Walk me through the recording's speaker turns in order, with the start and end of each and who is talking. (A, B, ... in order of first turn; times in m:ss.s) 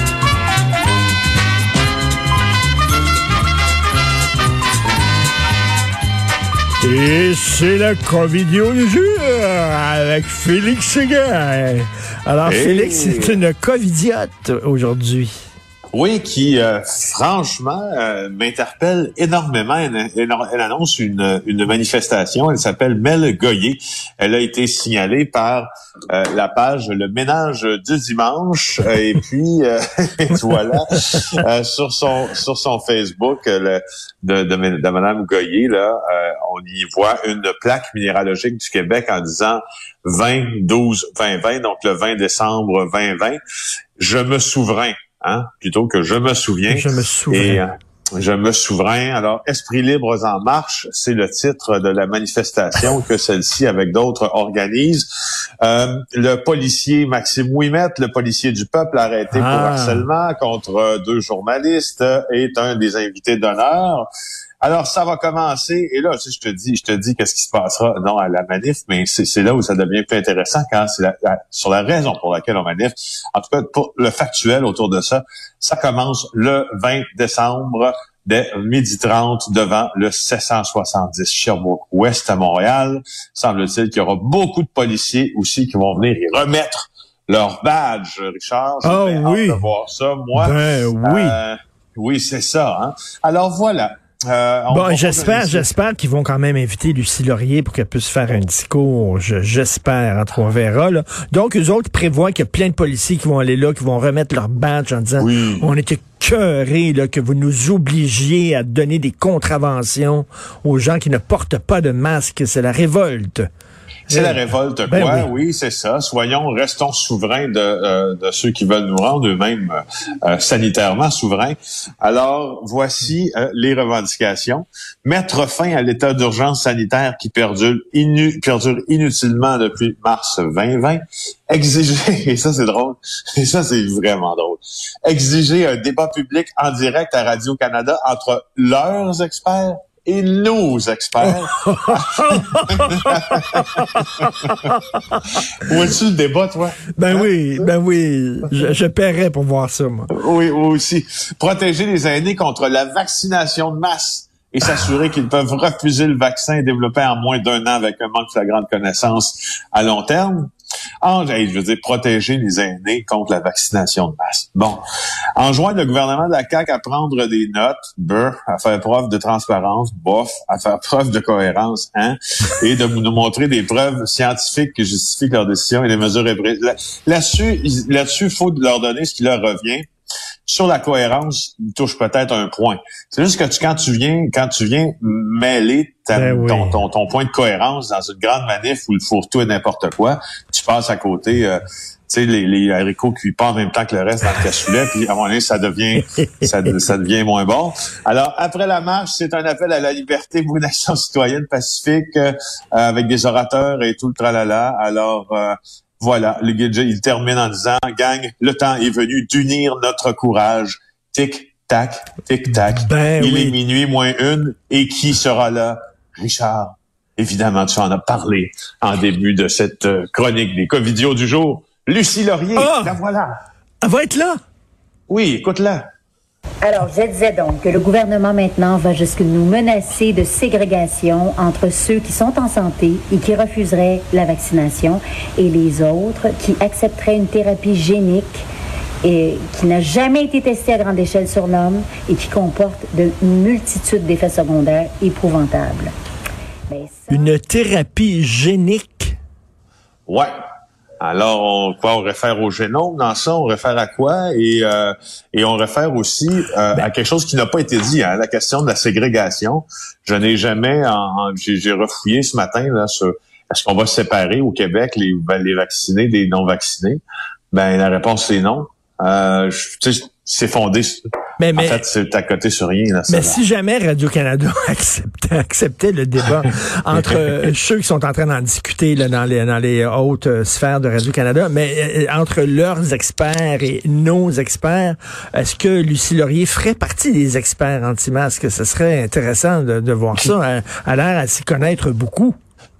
0:06.8-0:15.3 A
0:12.4-0:13.4 B
0:15.9-0:43.4 B
0:44.0-0:55.1 B
0:46.7-0:47.6 A
0:55.6-1:04.1 B
0:59.3-1:00.0 A
1:04.6-1:35.7 B
1:28.8-1:29.6 A
1:30.4-1:31.4 A
1:34.7-1:53.5 A
1:45.2-1:45.7 B
1:54.1-2:23.8 B
1:54.1-1:55.3 A
2:21.3-2:25.4 A
2:25.6-2:27.7 B
2:27.0-2:30.1 A
2:30.1-2:40.5 B
2:41.0-2:44.8 B
2:45.4-2:59.8 B
3:00.4-3:43.3 B
3:06.1-3:06.8 A
3:16.2-3:16.7 A
3:32.5-3:33.6 A
3:42.6-3:43.0 A
3:43.8-3:44.4 A
3:45.1-3:45.8 B
3:46.6-3:58.4 C
3:59.0-4:05.9 C
4:06.7-4:07.3 C
4:07.1-4:09.2 A
4:11.0-4:27.0 B
4:27.5-4:31.0 B
4:31.4-4:31.8 A
4:31.5-4:33.4 B
4:33.1-4:52.4 A